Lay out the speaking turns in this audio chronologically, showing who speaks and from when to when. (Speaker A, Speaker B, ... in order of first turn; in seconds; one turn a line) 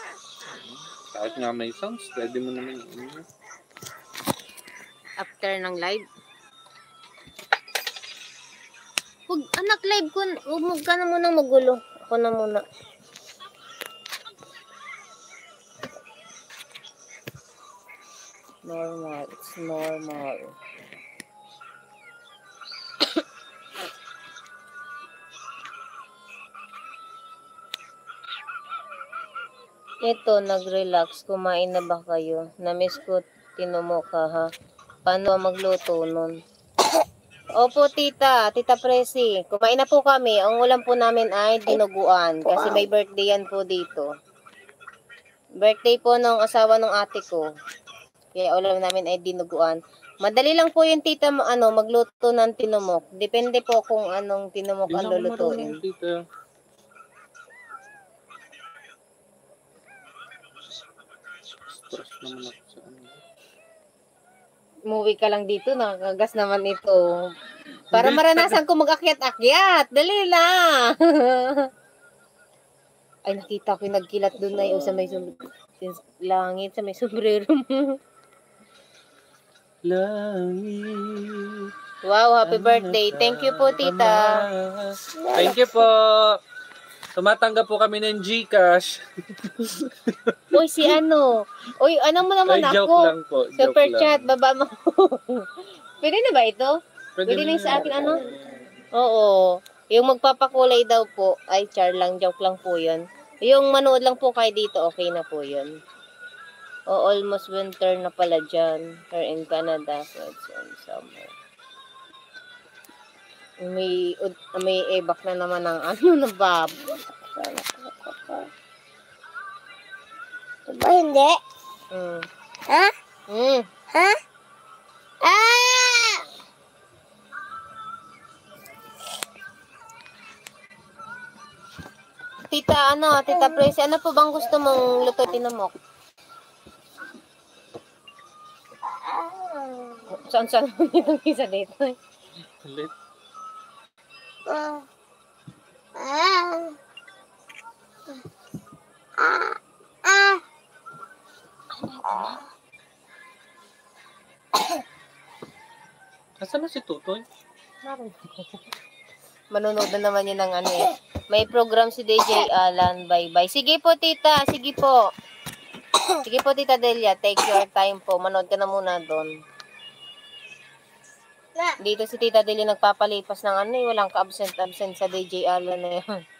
Speaker A: 0.4-3.2
Speaker B: 5.2-6.0
Speaker B: 9.3-12.6
Speaker B: 18.6-20.5
Speaker B: 30.0-34.5
Speaker B: 35.0-36.4
Speaker B: 37.6-44.1
Speaker C: 42.5-42.9
Speaker B: 45.6-47.4
Speaker B: 48.4-55.8
Speaker A: 54.9-56.2
Speaker A: 61.5-63.2
Speaker B: 64.9-67.1
Speaker A: 67.9-68.6
Speaker B: 67.9-71.7
Speaker B: 73.3-78.0
Speaker A: 79.8-81.7
Speaker B: 82.0-84.4
Speaker A: 82.4-86.4
Speaker C: 85.1-85.7
Speaker A: 87.2-90.6
Speaker B: 90.5-98.2
Speaker A: 92.5-94.3
Speaker A: 97.2-98.7
Speaker C: 98.0-98.4
Speaker B: 98.9-105.7
Speaker B: 106.9-111.3
Speaker B: 113.6-117.0
Speaker C: 117.3-118.5
Speaker C: 120.7-121.4
Speaker B: 121.9-122.3
Speaker C: 122.7-122.9
Speaker B: 123.3-123.7
Speaker C: 123.9-124.2
Speaker C: 125.2-126.2
Speaker B: 132.5-135.7
Speaker C: 133.3-133.7
Speaker C: 138.8-140.1
Speaker B: 140.1-141.9
Speaker A: 142.6-142.9
Speaker C: 144.5-144.8
Speaker C: 145.9-146.8
Speaker C: 149.2-150.4
Speaker B: 151.8-152.4
Speaker C: 152.0-152.4
Speaker A: 156.4-157.2
Speaker B: 157.8-158.6
Speaker B: 159.5-165.1
Speaker B: 166.2-169.3
Speaker B: 171.8-176.1